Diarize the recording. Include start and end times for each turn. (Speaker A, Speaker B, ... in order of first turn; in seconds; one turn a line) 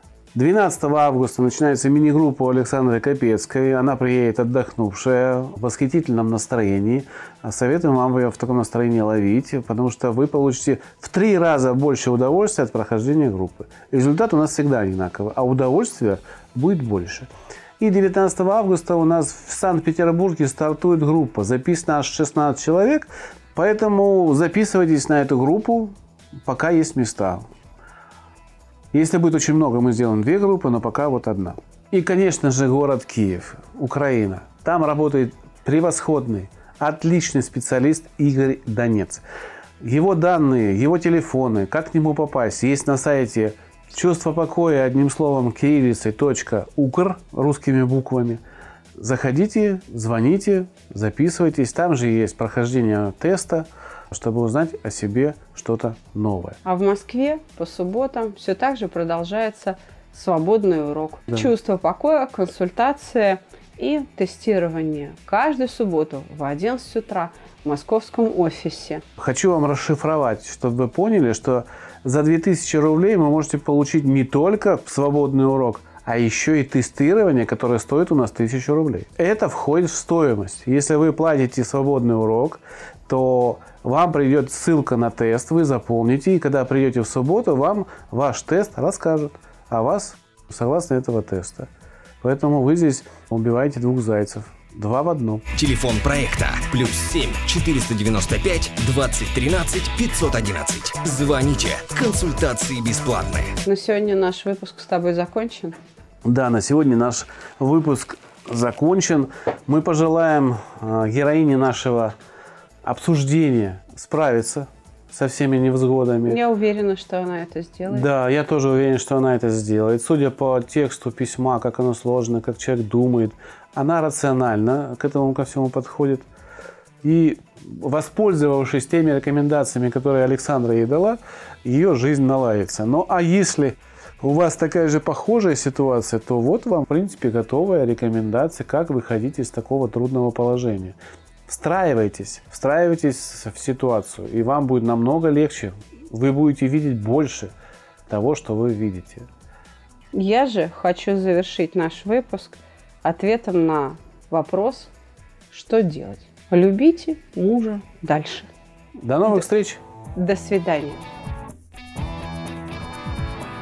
Speaker A: 0.3-27.4
Speaker A: 28.9-39.2
Speaker A: 39.8-48.4
Speaker A: 49.0-56.6
Speaker B: 56.6-69.0
Speaker A: 69.2-91.7
Speaker A: 92.2-95.4
Speaker C: 95.5-103.5
Speaker B: 103.6-105.8
Speaker A: 106.2-112.1
Speaker A: 112.8-116.4
Speaker B: 116.2-118.1
Speaker A: 117.9-126.2
Speaker A: 127.0-147.5
Speaker A: 148.1-149.3
Speaker B: 150.1-154.9
Speaker B: 155.5-158.5
Speaker A: 159.0-159.8
Speaker B: 160.2-161.1